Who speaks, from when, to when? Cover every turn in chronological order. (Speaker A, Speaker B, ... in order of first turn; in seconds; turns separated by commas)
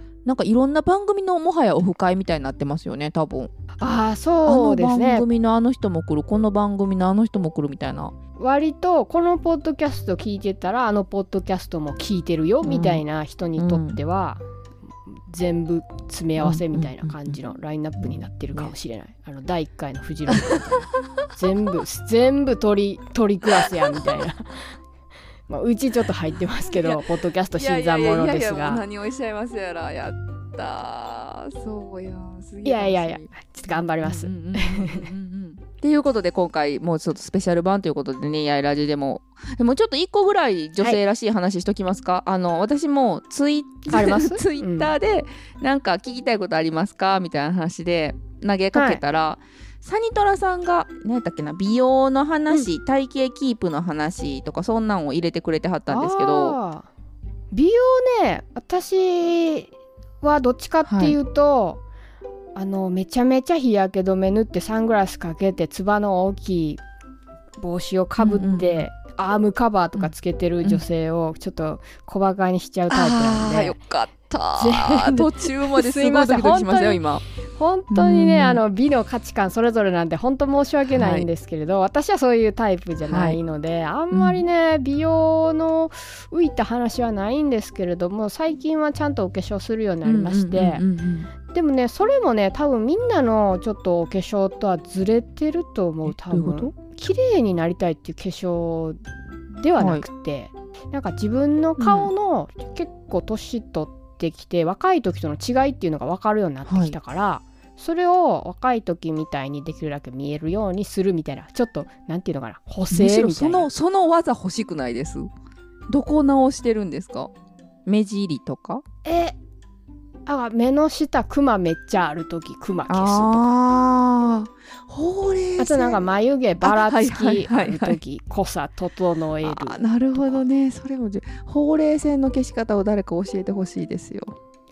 Speaker A: 0.2-3.5, Speaker B: 3.8-5.2, Speaker A: 4.5-8.1, Speaker B: 8.4-14.4, Speaker A: 12.6-13.0, Speaker A: 13.6-14.0, Speaker B: 15.1-24.8, Speaker A: 16.4-17.4, Speaker A: 18.0-18.7, Speaker A: 23.9-24.2, Speaker B: 25.5-28.8, Speaker A: 26.7-33.3, Speaker B: 32.6-35.1, Speaker A: 34.0-56.6, Speaker B: 43.9-44.9, Speaker B: 48.7-49.0, Speaker B: 55.9-56.9, Speaker B: 57.5-59.7, Speaker B: 60.2-61.8, Speaker A: 60.9-61.2, Speaker B: 62.5-66.8, Speaker B: 67.6-73.8, Speaker A: 68.2-68.8, Speaker A: 72.9-77.2, Speaker B: 74.6-90.8, Speaker A: 77.9-78.6, Speaker A: 80.9-81.3, Speaker A: 83.0-83.4, Speaker A: 84.1-84.4, Speaker A: 90.0-91.3, Speaker B: 91.5-113.7, Speaker A: 96.1-96.7, Speaker A: 99.8-100.1, Speaker A: 101.8-102.1, Speaker A: 106.7-107.0, Speaker A: 112.9-115.3, Speaker A: 115.9-117.3, Speaker A: 117.9-118.8, Speaker B: 119.0-119.4, Speaker B: 120.3-123.4, Speaker A: 122.9-126.0, Speaker B: 125.6-130.4, Speaker A: 126.6-128.0, Speaker A: 129.4-134.4